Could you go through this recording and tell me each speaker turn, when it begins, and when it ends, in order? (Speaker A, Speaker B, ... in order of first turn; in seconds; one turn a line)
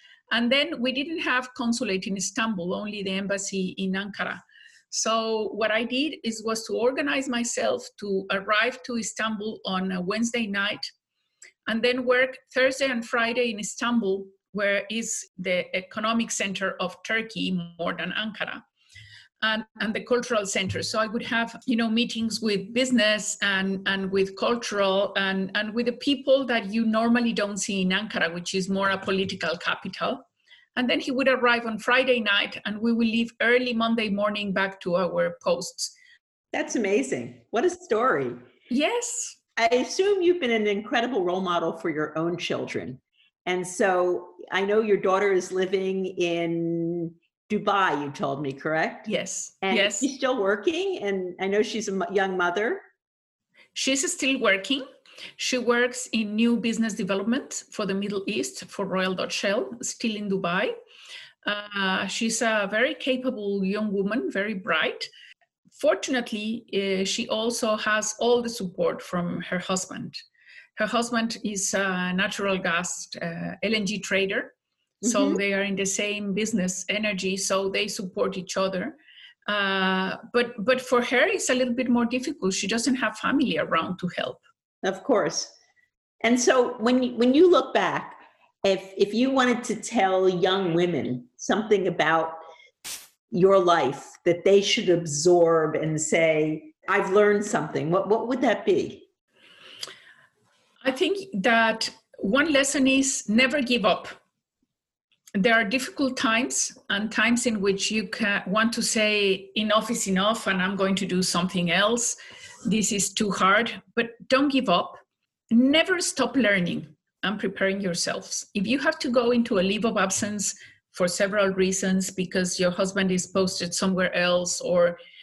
Speaker A: 0.3-10.9
Speaker A: 11.7-18.6
Speaker A: 19.4-30.2
Speaker A: 30.8-36.0
Speaker B: 36.5-38.4
Speaker A: 38.7-39.4
Speaker B: 39.6-49.1
Speaker A: 49.1-50.1
Speaker B: 49.6-52.8
Speaker A: 53.8-54.9
Speaker A: 55.4-60.7
Speaker A: 61.5-65.1
Speaker A: 65.7-70.2
Speaker A: 70.8-79.0
Speaker B: 75.0-75.4
Speaker A: 79.5-84.4
Speaker B: 84.8-85.5
Speaker B: 86.2-92.4
Speaker B: 93.3-99.1
Speaker A: 100.8-104.2
Speaker A: 105.3-115.0
Speaker A: 115.5-125.0